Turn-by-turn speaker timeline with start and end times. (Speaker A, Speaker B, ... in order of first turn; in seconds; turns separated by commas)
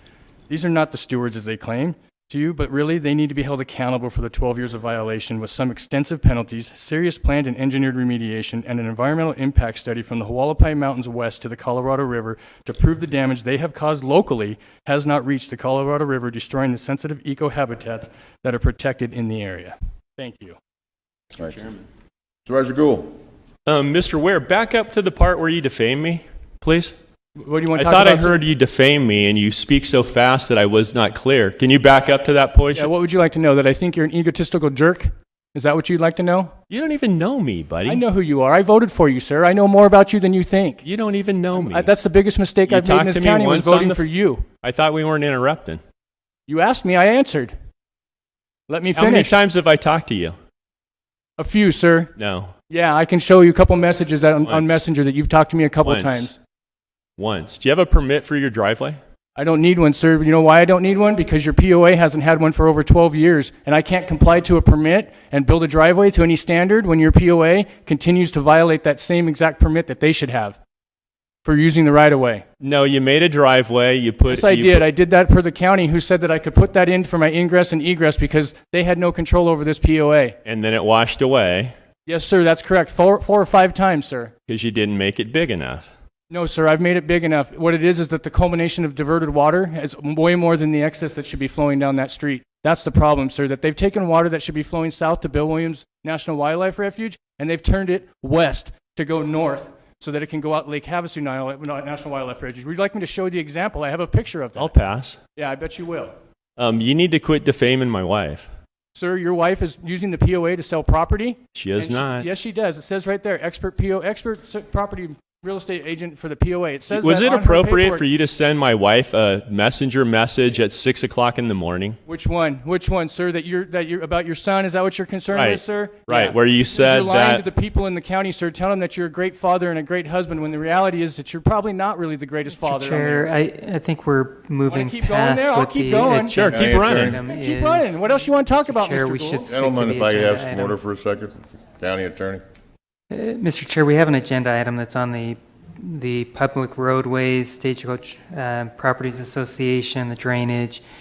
Speaker A: 0.5-20.6, Speaker B: 21.3-21.6, Speaker B: 22.4-23.2, Speaker C: 23.6-26.9, Speaker A: 27.4-28.4, Speaker C: 27.7-32.9, Speaker A: 32.7-36.5, Speaker C: 36.7-38.0, Speaker A: 37.8-40.8, Speaker C: 40.8-41.9, Speaker A: 41.5-44.5, Speaker C: 42.6-44.1, Speaker C: 44.6-45.8, Speaker A: 46.5-47.5, Speaker A: 48.7-49.4, Speaker C: 48.9-50.4, Speaker A: 51.4-52.1, Speaker C: 52.1-52.5, Speaker A: 52.7-56.4, Speaker C: 54.4-54.8, Speaker C: 55.8-56.3, Speaker C: 57.2-59.0, Speaker A: 59.3-70.6, Speaker A: 71.4-72.4, Speaker C: 72.6-74.9, Speaker A: 74.3-80.4, Speaker C: 80.4-81.7, Speaker A: 82.0-84.3, Speaker C: 84.5-85.9, Speaker A: 86.3-104.7, Speaker C: 104.5-105.2, Speaker A: 105.3-106.1, Speaker C: 106.6-108.5, Speaker A: 108.9-118.0, Speaker C: 111.5-112.3, Speaker C: 116.9-122.0, Speaker A: 122.1-133.4, Speaker C: 125.3-127.5, Speaker D: 132.5-140.8, Speaker A: 134.7-136.4, Speaker C: 136.3-137.2, Speaker B: 136.5-137.2, Speaker A: 137.1-139.5, Speaker B: 139.5-142.4, Speaker D: 143.1-150.8